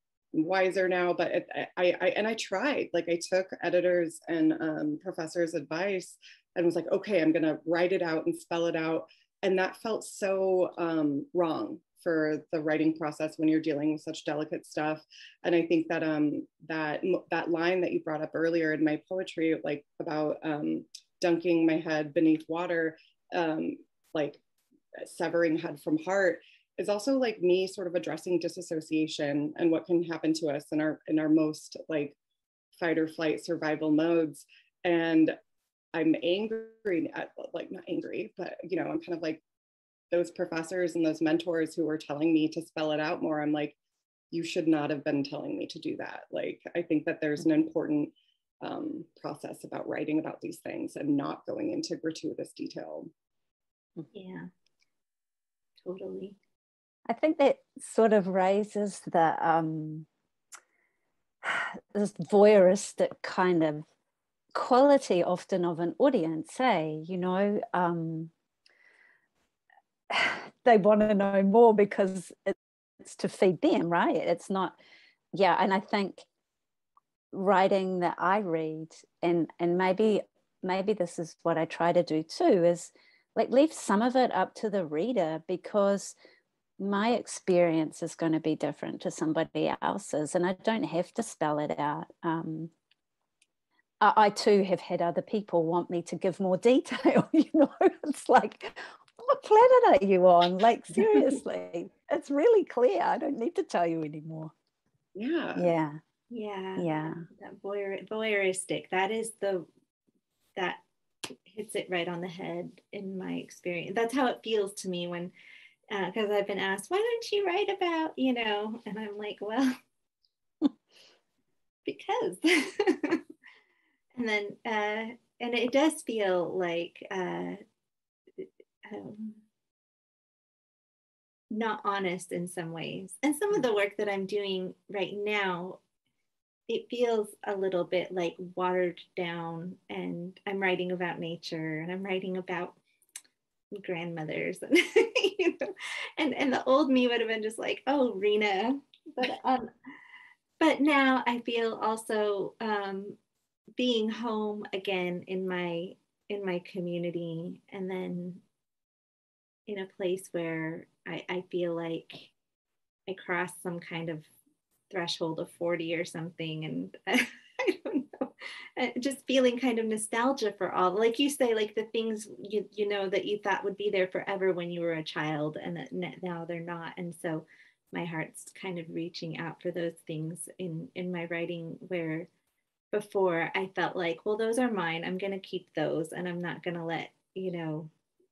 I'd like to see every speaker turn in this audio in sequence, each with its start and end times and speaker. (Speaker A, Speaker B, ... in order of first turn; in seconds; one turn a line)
Speaker A: 0.3-24.4
Speaker A: 25.0-32.2
Speaker A: 32.8-35.4
Speaker A: 35.9-39.4
Speaker A: 40.1-43.8
Speaker A: 44.3-53.1
Speaker B: 54.1-54.5
Speaker B: 55.8-56.4
Speaker C: 57.1-60.1
Speaker C: 61.4-63.9
Speaker C: 64.5-68.3
Speaker C: 70.1-74.8
Speaker C: 75.3-76.2
Speaker C: 77.3-86.2
Speaker C: 86.8-92.7
Speaker C: 94.0-104.5
Speaker A: 105.2-105.7
Speaker C: 105.5-106.0
Speaker B: 106.3-109.7
Speaker C: 106.8-107.2
Speaker B: 110.5-110.8
Speaker B: 111.5-115.3
Speaker B: 115.9-119.8
Speaker B: 121.8-123.2
Speaker B: 124.1-127.6
Speaker B: 128.4-129.4
Speaker B: 131.5-135.8
Speaker B: 136.7-142.8
Speaker B: 143.7-149.7
Speaker B: 150.6-153.2
Speaker B: 153.8-158.4
Speaker B: 159.7-162.3
Speaker B: 163.1-164.3
Speaker B: 164.9-182.3
Speaker B: 182.9-187.9